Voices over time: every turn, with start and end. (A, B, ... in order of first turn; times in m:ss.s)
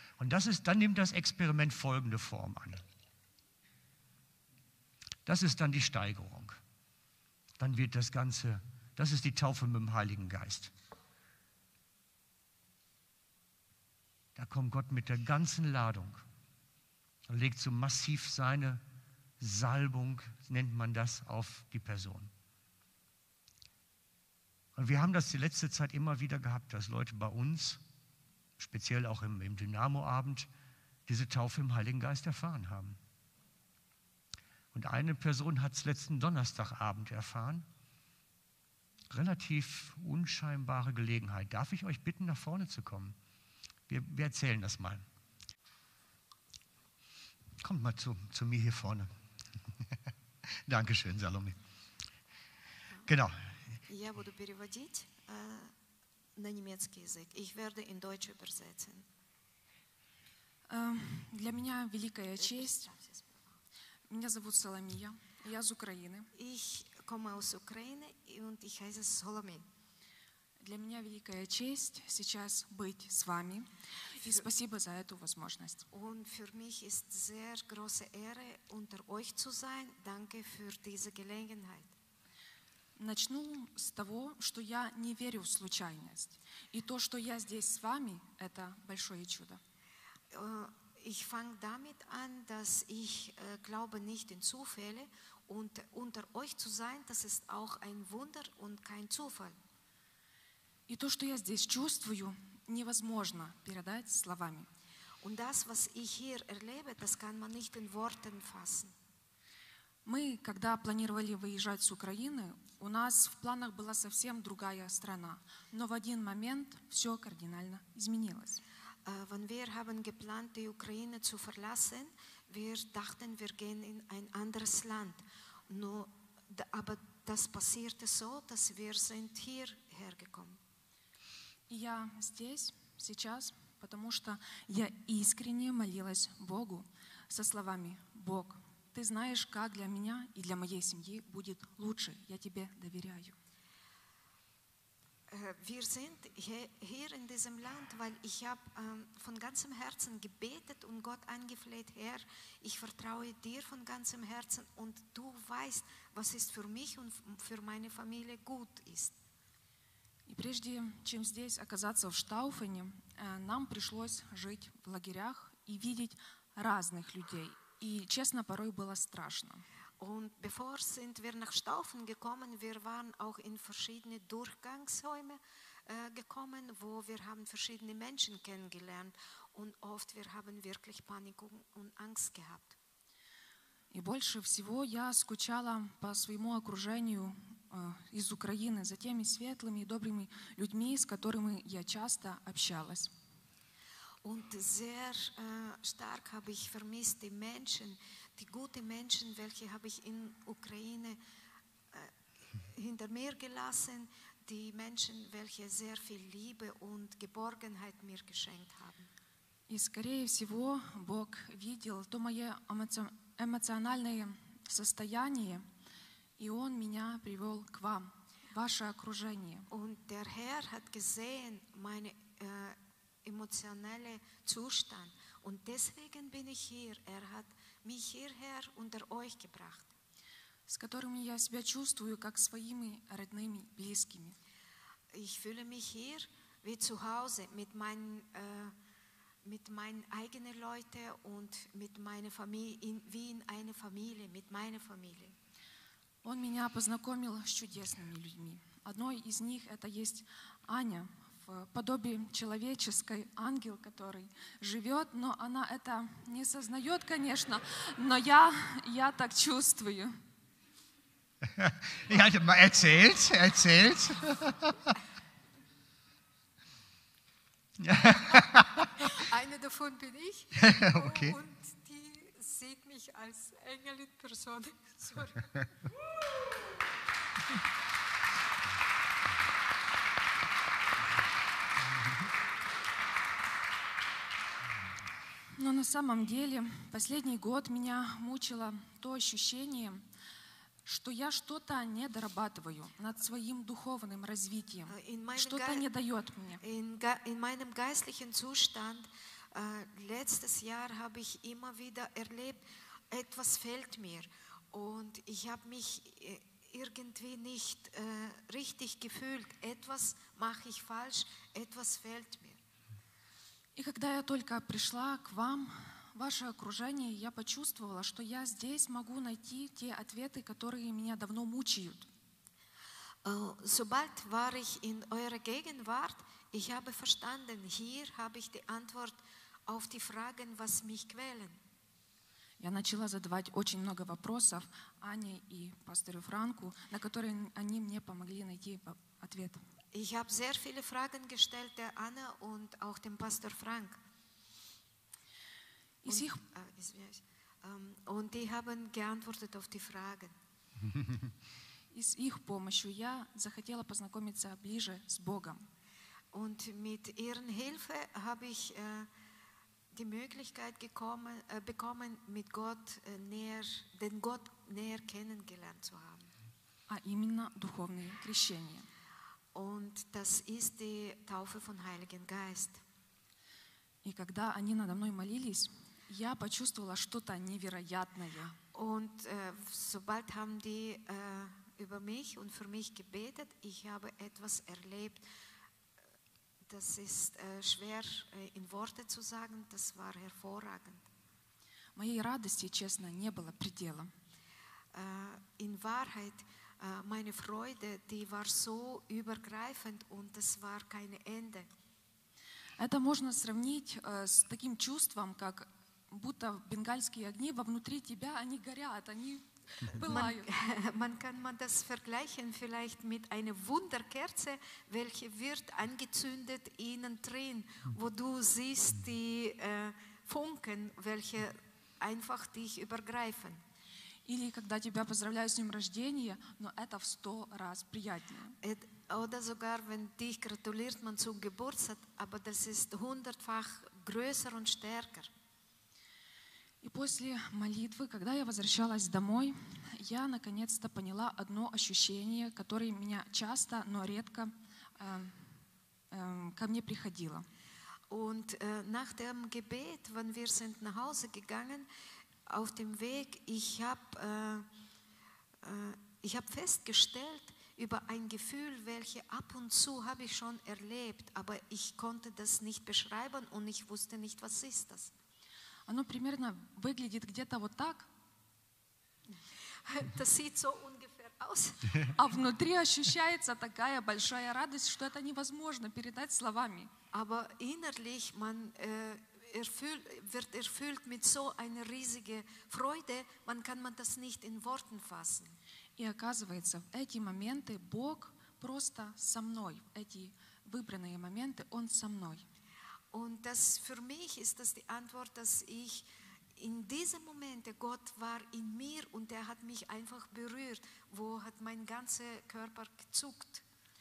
0:00.2-0:02.8 A
0:05.2-0:06.6 A
0:07.6-0:10.7 A
0:14.4-0:16.2 A
0:17.3-0:18.8 A
0:19.4-0:22.3 A
0:24.7-0:27.8 A
0:28.6-0:30.5 A
0:31.1-0:33.0 A
0:34.7-0:37.6 A
0:39.1-0:43.2 A
0:43.9-0:45.0 A
0:47.6-0:49.1 A
0:50.5-0:51.6 A
0:53.0-0:53.4 A
0:53.9-0:55.7 B
0:56.4-0:59.1 B
1:00.7-1:02.9 C
1:02.4-1:03.4 B
1:04.1-1:06.3 C
1:06.3-1:09.6 B
1:10.6-1:15.9 C
1:14.2-1:14.5 B
1:15.9-1:21.9 B
1:23.0-1:29.6 C
1:30.3-1:39.5 B
1:40.9-1:44.7 C
1:45.2-1:48.9 B
1:50.0-1:58.6 C
1:59.0-2:10.6 B
2:11.7-2:23.3 C
2:25.3-2:39.2 B
2:40.3-2:49.6 C
2:50.0-3:02.8 B
3:03.9-3:13.1 C
3:14.2-3:21.2 B
3:21.9-3:29.1 B
3:29.7-3:35.6 C
3:36.4-3:39.7 C
3:39.7-3:49.9 B
3:50.7-3:54.4 C
3:55.1-3:58.8 B
3:59.4-4:05.4 B
4:06.2-4:20.1 C
4:21.4-4:24.9 A
4:27.8-4:29.1 A
4:29.0-4:35.5 B
4:30.5-4:31.4 A
4:45.6-4:50.0 C
4:50.8-4:56.6 C
4:54.9-4:55.8 B
4:56.6-5:12.6 B
5:13.8-5:22.1 C
5:23.2-5:31.6 B
5:32.6-5:39.6 C
5:39.9-5:44.0 B
5:46.0-5:46.4 C
5:46.0-5:50.3 B
5:51.9-5:55.7 C
5:56.3-5:59.1 B
5:59.9-6:06.3 B
6:06.9-6:08.9 C
6:09.5-6:12.8 B
6:14.0-6:18.6 C
6:18.7-6:25.2 B
6:26.6-6:31.0 B
6:31.9-6:34.1 C
6:34.9-6:41.7 B
6:42.8-6:50.5 C
6:49.9-7:03.6 B
7:04.2-7:08.6 C
7:08.6-7:15.3 B
7:16.8-7:25.5 C
7:26.1-7:27.4 C
7:28.1-7:31.9 B
7:32.4-7:34.7 B
7:35.6-7:45.1 B
7:45.9-7:48.1 C
7:49.8-7:52.1 B
7:52.1-7:56.9 C
7:57.1-8:05.6 B
8:06.0-8:12.4 C
8:13.1-8:23.6 B